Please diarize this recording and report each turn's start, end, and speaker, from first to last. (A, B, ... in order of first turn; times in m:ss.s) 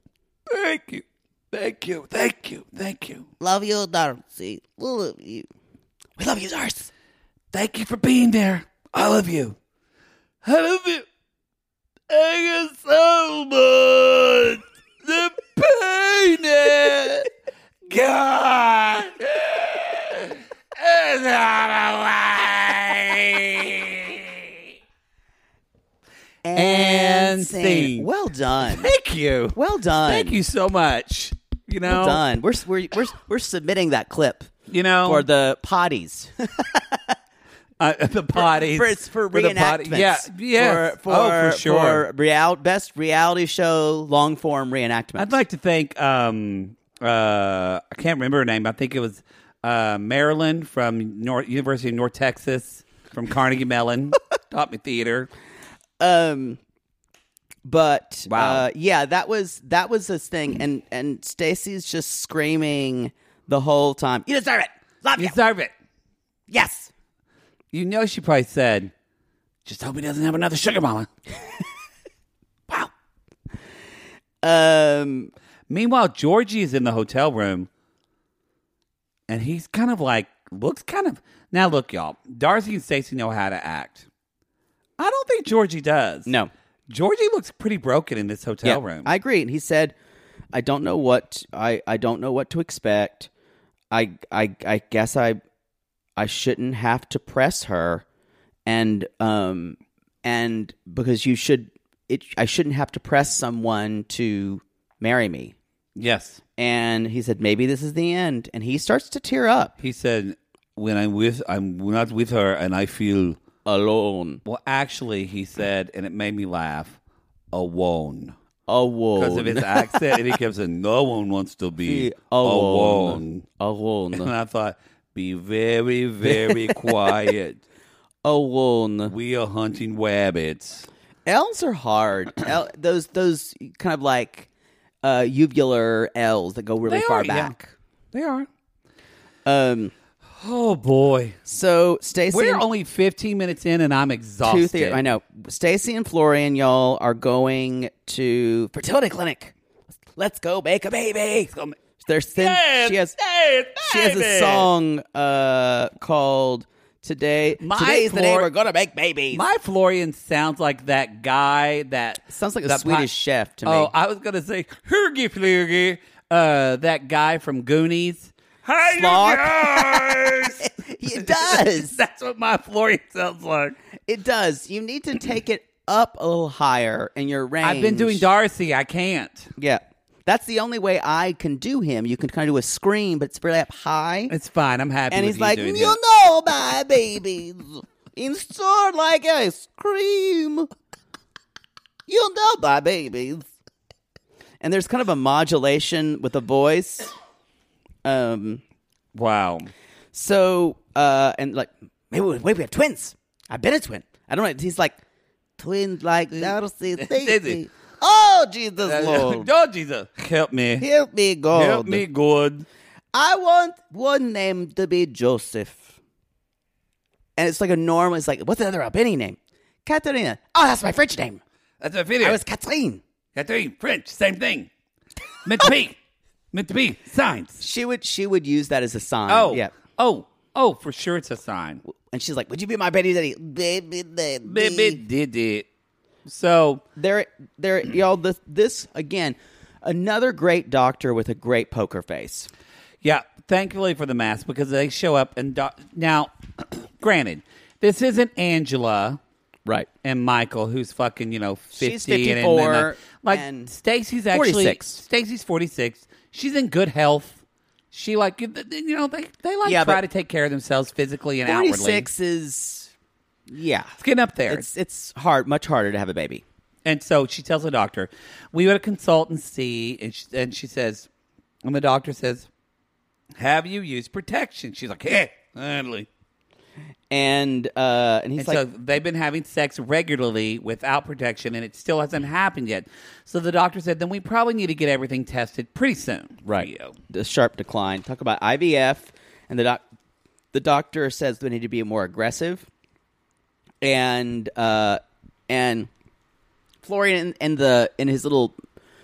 0:00.5-0:03.3 A
0:03.4-0:05.5 B
0:06.2-0:06.9 B
0:07.5-0:09.6 A
0:10.4-0:11.0 A
0:12.1-0:17.3 A
0:17.9-0:24.7 A
0:26.4-0:28.9 B
0:26.5-0:28.1 A
0:28.7-0:32.2 A
0:29.5-0:30.4 B
0:31.8-0:34.5 B
0:34.7-0:35.3 A
0:35.0-0:37.1 B
0:37.8-0:42.0 A
0:38.3-0:45.4 B
0:45.2-0:55.3 A
0:56.0-0:56.6 B
0:57.6-1:05.4 B
0:58.3-0:58.6 A
1:05.2-1:05.7 A
1:06.5-1:06.9 B
1:07.7-1:08.9 A
1:09.6-1:11.1 A
1:14.4-1:15.3 B
1:15.7-1:17.7 A
1:19.3-1:24.1 A
1:25.0-1:26.3 A
1:26.2-1:26.5 B
1:26.9-1:29.1 A
1:28.6-1:29.9 B
1:30.5-1:33.3 B
1:33.9-1:35.4 B
1:36.2-1:38.0 B
1:38.6-1:45.5 B
1:46.0-1:46.4 A
1:46.6-1:49.8 B
1:49.8-1:53.4 A
1:53.6-1:54.4 B
1:54.4-1:57.0 A
1:57.5-1:58.4 A
1:58.7-2:00.1 B
1:59.2-2:03.4 A
2:01.8-2:04.3 B
2:04.1-2:07.6 A
2:06.2-2:06.8 B
2:08.2-2:09.1 B
2:09.1-2:10.9 A
2:11.2-2:14.5 B
2:15.0-2:17.7 B
2:16.8-2:17.6 A
2:18.1-2:18.5 A
2:19.4-2:19.9 B
2:20.3-2:21.4 A
2:21.5-2:22.6 B
2:22.3-2:25.0 A
2:24.4-2:29.5 B
2:30.1-2:33.1 B
2:31.3-2:31.8 A
2:32.3-2:34.7 A
2:33.8-2:39.4 B
2:37.6-2:38.5 A
2:39.3-2:43.1 A
2:42.3-2:43.9 B
2:43.6-2:53.8 A
2:48.8-2:51.9 B
2:54.1-2:58.3 B
2:57.6-2:59.5 A
2:59.6-3:04.3 B
3:04.3-3:06.0 A
3:05.1-3:10.7 B
3:12.1-3:13.5 B
3:14.6-3:17.1 B
3:18.0-3:18.6 B
3:19.1-3:19.7 A
3:20.1-3:25.0 B
3:25.6-3:29.5 B
3:26.3-3:27.6 A
3:28.8-3:30.8 A
3:30.8-3:32.0 B
3:31.5-3:32.7 A
3:33.1-3:35.9 B
3:37.4-3:41.4 B
3:41.8-3:42.4 A
3:42.2-3:43.0 B
3:43.3-3:44.7 A
3:45.4-3:46.0 A
3:46.5-3:47.6 A
3:47.6-3:49.7 B
3:49.3-3:51.8 A
3:51.8-3:55.0 B
3:54.4-3:55.7 A
3:56.2-3:56.8 A
3:57.0-4:02.5 B
4:03.0-4:09.2 A
4:10.0-4:17.4 A
4:11.7-4:13.7 B
4:14.3-4:15.0 B
4:17.9-4:22.1 A
4:19.6-4:20.0 B
4:21.4-4:22.9 B
4:23.5-4:23.9 B
4:24.0-4:24.6 A
4:24.5-4:26.4 B
4:26.8-4:31.1 A
4:31.6-4:32.5 A
4:33.3-4:36.1 A
4:37.1-4:38.6 B
4:38.4-4:46.9 A
4:46.4-4:49.8 B
4:50.5-4:52.7 B
4:53.8-4:55.9 B
4:56.8-4:58.5 B